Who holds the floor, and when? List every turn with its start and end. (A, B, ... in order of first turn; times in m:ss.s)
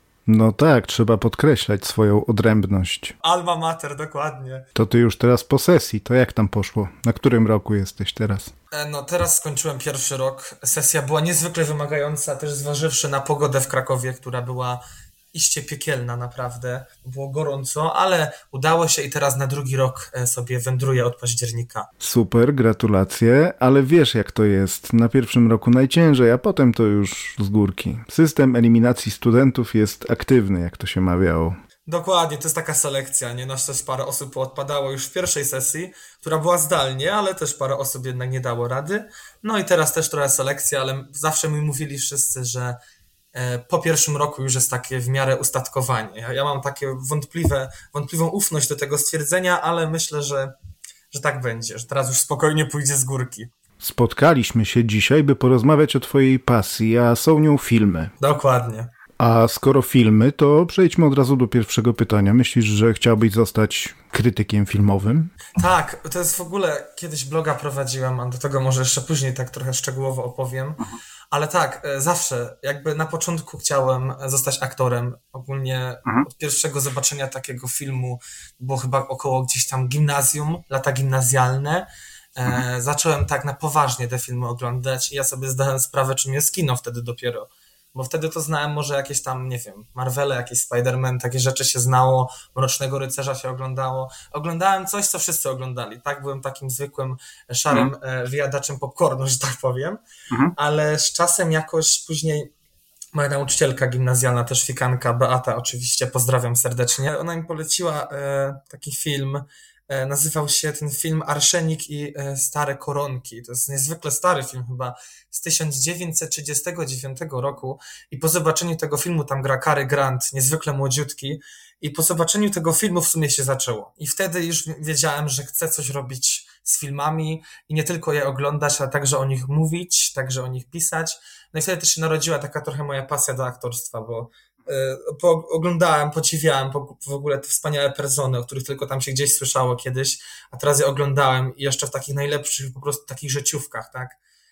0:00.3-0:03.2 A
0:03.2-0:04.7 B
0:04.8-0:08.5 A
0:08.7-0:14.8 B
0:15.3-0:21.9 B
0:22.0-0:31.6 A
0:31.9-0:42.8 B
0:43.3-0:50.5 B
0:51.1-0:53.5 B
0:53.8-0:58.1 A
0:58.2-0:58.9 B
0:59.2-1:05.3 A
1:05.6-1:40.0 B
1:40.6-1:42.5 B
1:43.2-2:24.2 B